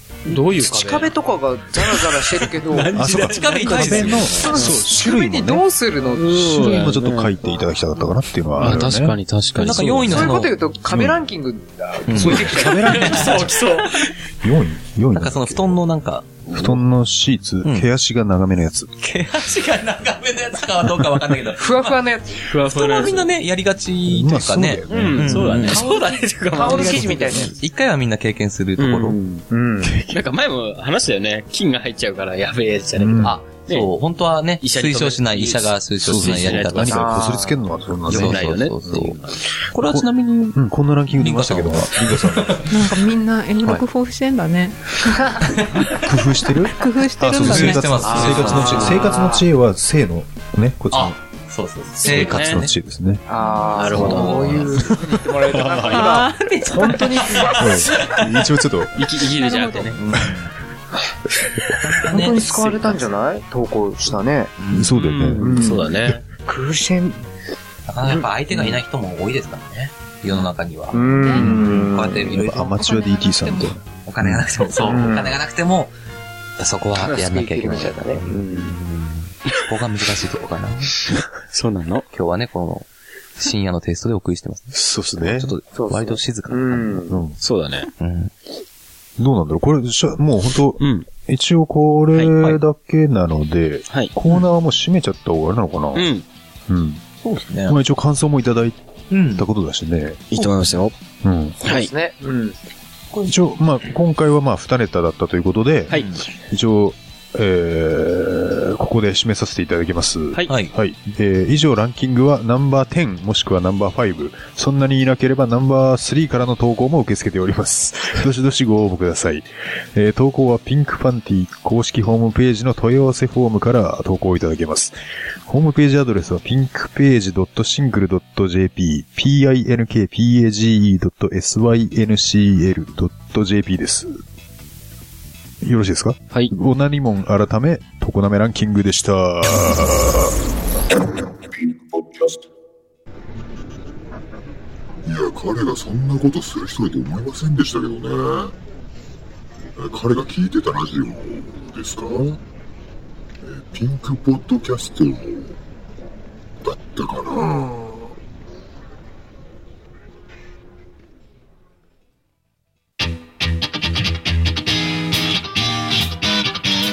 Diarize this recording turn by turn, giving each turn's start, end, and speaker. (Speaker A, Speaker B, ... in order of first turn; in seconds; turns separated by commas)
Speaker A: 0.2-2.9, Speaker B: 0.3-1.1, Speaker B: 1.7-4.8, Speaker C: 2.9-5.6, Speaker D: 3.1-4.5, Speaker A: 4.4-6.6, Speaker B: 6.1-7.3, Speaker C: 6.3-9.2, Speaker B: 8.6-10.3, Speaker D: 9.5-10.5, Speaker A: 10.1-13.0, Speaker C: 10.9-11.2, Speaker D: 12.1-13.4, Speaker C: 12.1-13.8, Speaker B: 12.8-14.1, Speaker C: 14.4-15.8, Speaker D: 15.1-16.8, Speaker C: 16.5-18.9, Speaker D: 17.6-17.9, Speaker D: 19.0-22.0, Speaker A: 21.6-22.4, Speaker B: 22.5-23.2, Speaker D: 22.5-25.8, Speaker C: 24.0-25.7, Speaker B: 24.9-27.5, Speaker A: 25.7-27.5, Speaker D: 26.7-29.2, Speaker B: 28.8-29.4, Speaker A: 29.5-30.0, Speaker C: 29.8-30.1, Speaker B: 30.1-33.9, Speaker C: 33.0-33.4, Speaker D: 33.2-37.2, Speaker B: 34.6-37.2, Speaker C: 36.0-38.5, Speaker A: 36.9-37.6, Speaker D: 38.1-39.2, Speaker B: 38.1-39.4, Speaker D: 39.7-40.6, Speaker C: 39.9-42.6, Speaker D: 41.1-43.0, Speaker E: 42.7-45.3, Speaker D: 45.5-45.8, Speaker C: 46.0-51.2, Speaker E: 46.7-48.0, Speaker D: 47.3-49.0, Speaker A: 48.0-49.5, Speaker D: 50.9-52.7, Speaker C: 52.0-53.2, Speaker B: 52.0-52.6, Speaker A: 53.3-57.9, Speaker D: 53.4-54.9, Speaker B: 53.7-54.4, Speaker C: 53.9-54.2, Speaker C: 54.8-56.1, Speaker E: 55.9-56.6, Speaker D: 56.9-58.4, Speaker C: 57.5-58.9, Speaker B: 59.0-60.0, Speaker E: 59.3-60.0, Speaker D: 60.0-60.5, Speaker D: 61.8-63.1, Speaker A: 62.1-64.5, Speaker D: 64.6-64.9, Speaker C: 64.7-66.2, Speaker B: 64.9-66.2, Speaker A: 65.4-65.8, Speaker A: 66.5-67.2, Speaker D: 67.9-72.7, Speaker A: 68.1-68.8, Speaker A: 70.9-72.4, Speaker C: 71.4-74.5, Speaker E: 72.7-73.8, Speaker D: 74.0-75.9, Speaker A: 74.8-75.3, Speaker D: 76.6-81.0, Speaker A: 77.0-78.7, Speaker B: 81.5-82.0, Speaker D: 82.1-82.8, Speaker D: 83.4-87.1, Speaker C: 84.7-85.5, Speaker A: 85.7-87.2, Speaker C: 87.1-87.4, Speaker B: 87.4-87.9, Speaker D: 88.0-88.3, Speaker C: 89.2-96.1, Speaker B: 90.8-91.1, Speaker B: 92.1-92.6, Speaker B: 95.9-96.2, Speaker C: 96.7-97.0, Speaker D: 97.2-97.8, Speaker C: 97.7-98.8, Speaker D: 99.1-99.5, Speaker C: 99.3-100.5, Speaker B: 100.3-100.9, Speaker C: 101.2-101.6, Speaker A: 101.6-102.5, Speaker B: 101.6-101.9, Speaker C: 103.2-124.9, Speaker B: 105.9-106.2, Speaker D: 105.9-106.2, Speaker C: 125.5-134.2, Speaker C: 135.6-140.3, Speaker F: 145.0-148.5, Speaker F: 149.8-152.3, Speaker F: 153.4-155.5, Speaker F: 156.6-157.9